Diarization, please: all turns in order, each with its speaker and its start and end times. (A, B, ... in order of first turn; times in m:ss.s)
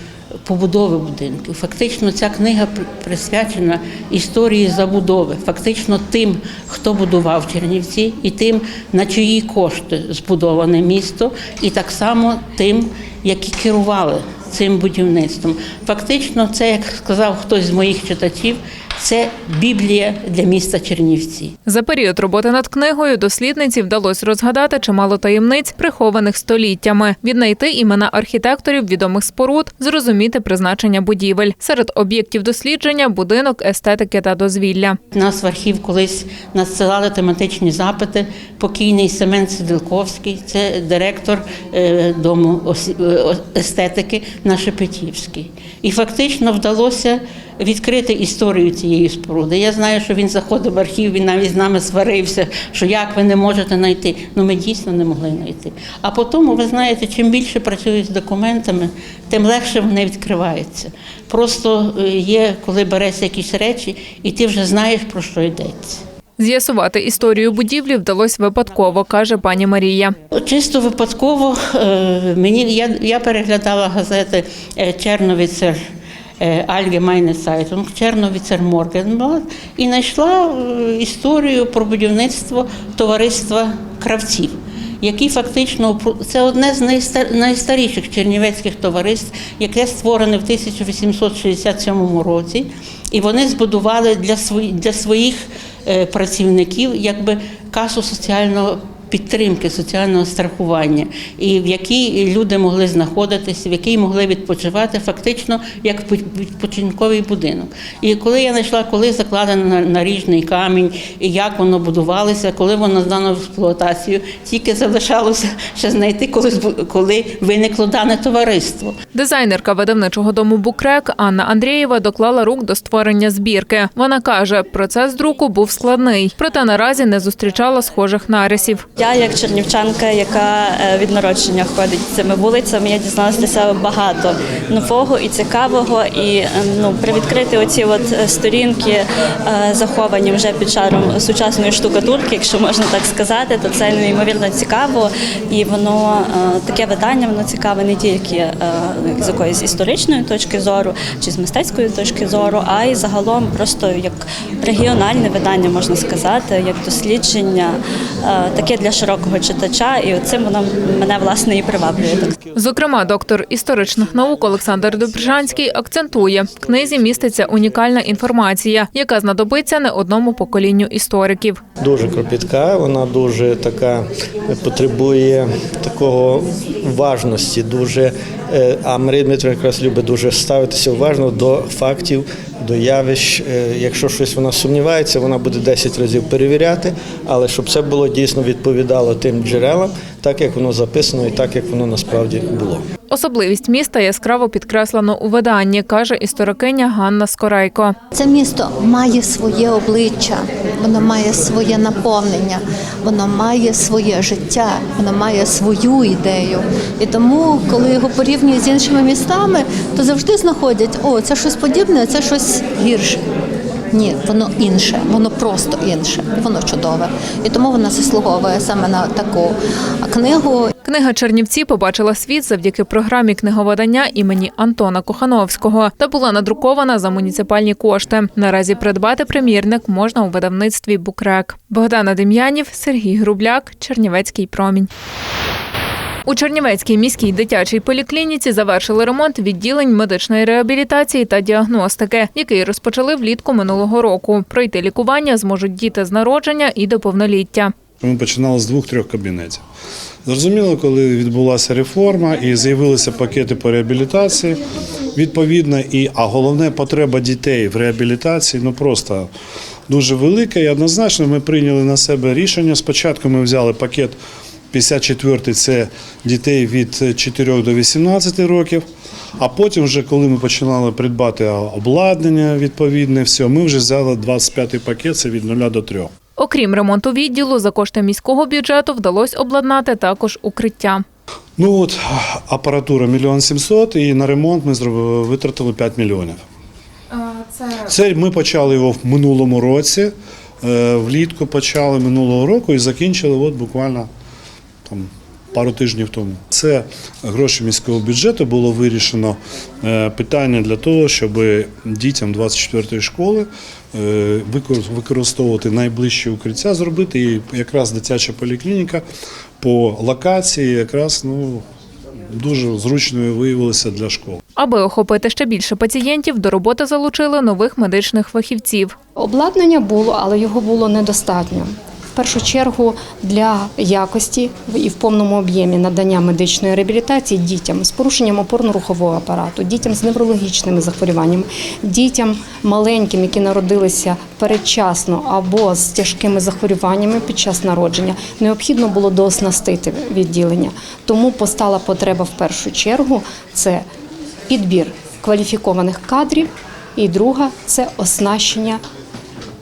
0:00.4-0:21.5 A
0:21.6-0:35.0 B
0:35.1-1:06.0 A
1:06.4-1:10.1 B
1:10.3-1:15.8 A
1:16.4-1:58.9 A
1:59.1-2:08.8 B
2:09.0-2:42.4 C
2:42.5-2:51.6 B
2:51.8-3:12.8 D
3:13.1-3:18.0 B
3:18.1-3:33.2 E
3:33.9-3:40.7 E
3:40.8-3:54.9 B
3:56.3-4:07.7 B
4:08.0-4:09.6 F
4:10.2-4:14.6 F
4:15.1-4:19.3 F
4:19.9-4:24.2 F
4:24.7-4:28.8 F
4:29.4-4:36.1 F
4:36.4-4:41.0 B
4:41.6-4:46.4 F
4:47.8-4:54.1 F
4:54.8-5:09.0 F
5:09.6-5:11.6 F
5:12.3-5:14.4 F
5:14.6-5:18.9 B
5:19.2-5:43.8 G
5:44.5-5:48.8 G